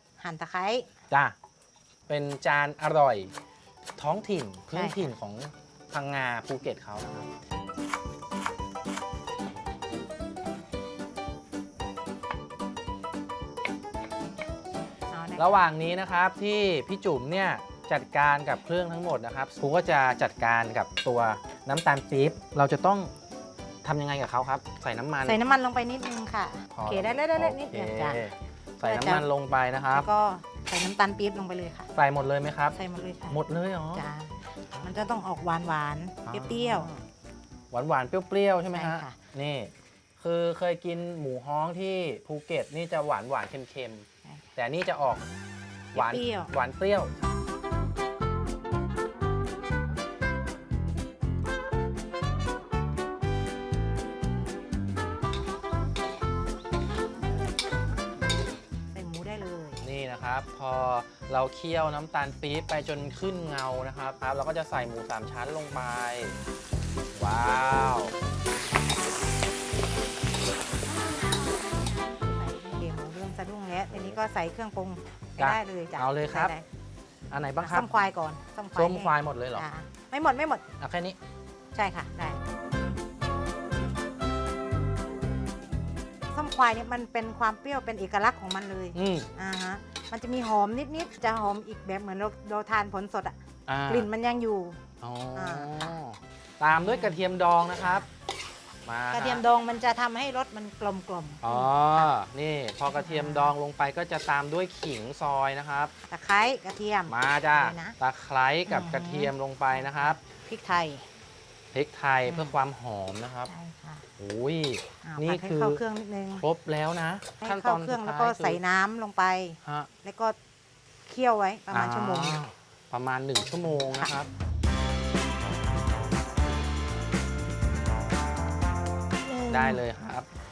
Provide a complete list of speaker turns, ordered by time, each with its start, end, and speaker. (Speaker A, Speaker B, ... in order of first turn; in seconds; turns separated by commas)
Speaker A: 0.2-0.9, Speaker B: 2.1-3.3, Speaker B: 4.0-7.3, Speaker A: 4.7-5.2, Speaker A: 15.1-15.7, Speaker B: 15.4-23.1, Speaker B: 23.8-25.5, Speaker A: 25.2-28.3, Speaker B: 26.7-30.1, Speaker A: 28.8-29.3, Speaker A: 29.9-31.9, Speaker B: 31.9-32.8, Speaker A: 32.7-33.4, Speaker B: 33.3-34.1, Speaker A: 33.9-36.9, Speaker B: 36.3-37.0, Speaker B: 37.7-45.3, Speaker A: 38.7-39.2, Speaker B: 45.9-47.1, Speaker A: 46.0-46.5, Speaker A: 58.9-59.8, Speaker B: 59.8-66.4, Speaker B: 67.1-68.1, Speaker A: 71.6-76.6, Speaker B: 73.9-74.2, Speaker B: 75.4-76.5, Speaker B: 77.3-77.9, Speaker A: 77.6-80.7, Speaker B: 78.8-79.7, Speaker B: 80.8-81.2, Speaker A: 81.7-82.4, Speaker A: 86.3-93.4, Speaker B: 89.0-89.3, Speaker B: 93.7-94.1, Speaker A: 93.9-96.0, Speaker B: 95.0-98.1, Speaker A: 96.8-97.2, Speaker A: 97.8-98.1, Speaker B: 98.8-99.4, Speaker A: 99.1-102.1, Speaker B: 101.4-105.9, Speaker A: 102.9-103.5, Speaker A: 106.1-108.0, Speaker B: 107.1-110.2, Speaker A: 108.7-111.1, Speaker B: 111.7-113.5, Speaker A: 112.3-112.6, Speaker A: 113.5-114.1, Speaker B: 114.2-115.8, Speaker A: 115.0-116.5, Speaker B: 116.4-118.6, Speaker A: 117.4-120.4, Speaker B: 119.6-119.9, Speaker A: 121.1-122.4, Speaker B: 121.7-124.3, Speaker A: 123.9-124.1, Speaker A: 129.2-130.3, Speaker B: 129.5-130.3